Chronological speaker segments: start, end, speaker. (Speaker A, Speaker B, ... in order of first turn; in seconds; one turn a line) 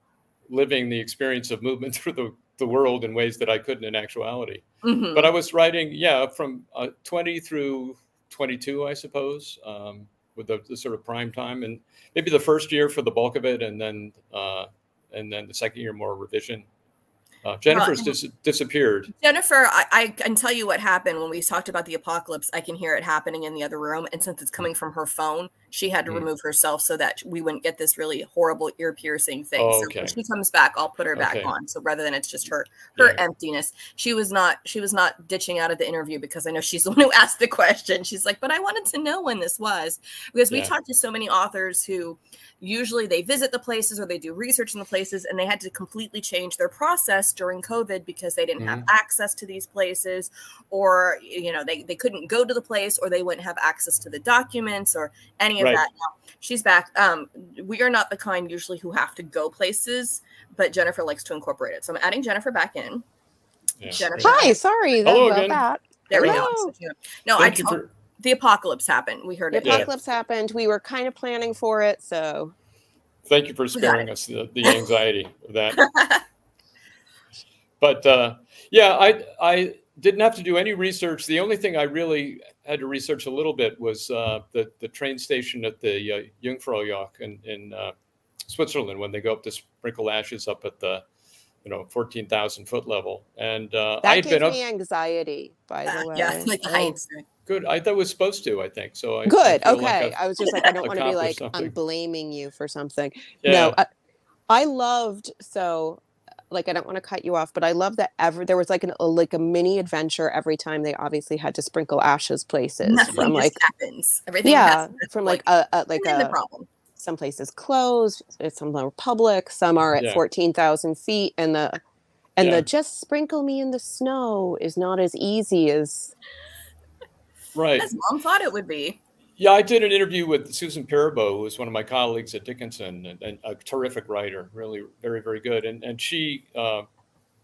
Speaker A: 0.5-16.7
Speaker B: 4.8-5.3
Speaker A: 17.4-19.1
Speaker B: 17.7-18.2
Speaker B: 19.2-63.0
Speaker A: 29.6-30.2
Speaker A: 31.2-31.5
Speaker A: 33.0-33.2
Speaker A: 48.6-48.9
Speaker A: 55.6-55.8
Speaker A: 63.8-64.4
Speaker B: 63.9-64.6
Speaker C: 64.2-66.7
Speaker A: 65.0-65.6
Speaker B: 66.1-69.9
Speaker A: 66.2-66.5
Speaker A: 67.4-67.9
Speaker C: 69.5-72.5
Speaker A: 73.3-75.9
Speaker B: 73.8-74.1
Speaker B: 75.8-76.2
Speaker A: 77.8-87.9
Speaker A: 88.5-91.0
Speaker A: 91.6-94.6
Speaker C: 94.0-97.0
Speaker B: 95.9-97.2
Speaker A: 97.5-101.8
Speaker C: 99.3-103.9
Speaker A: 103.4-103.8
Speaker C: 104.5-113.6
Speaker B: 112.8-115.4
Speaker C: 114.4-116.3
Speaker B: 116.0-116.7
Speaker C: 117.0-121.8
Speaker A: 120.0-120.2
Speaker C: 122.4-126.1
Speaker A: 122.4-122.7
Speaker A: 127.5-127.9
Speaker B: 127.8-129.0
Speaker A: 129.4-136.9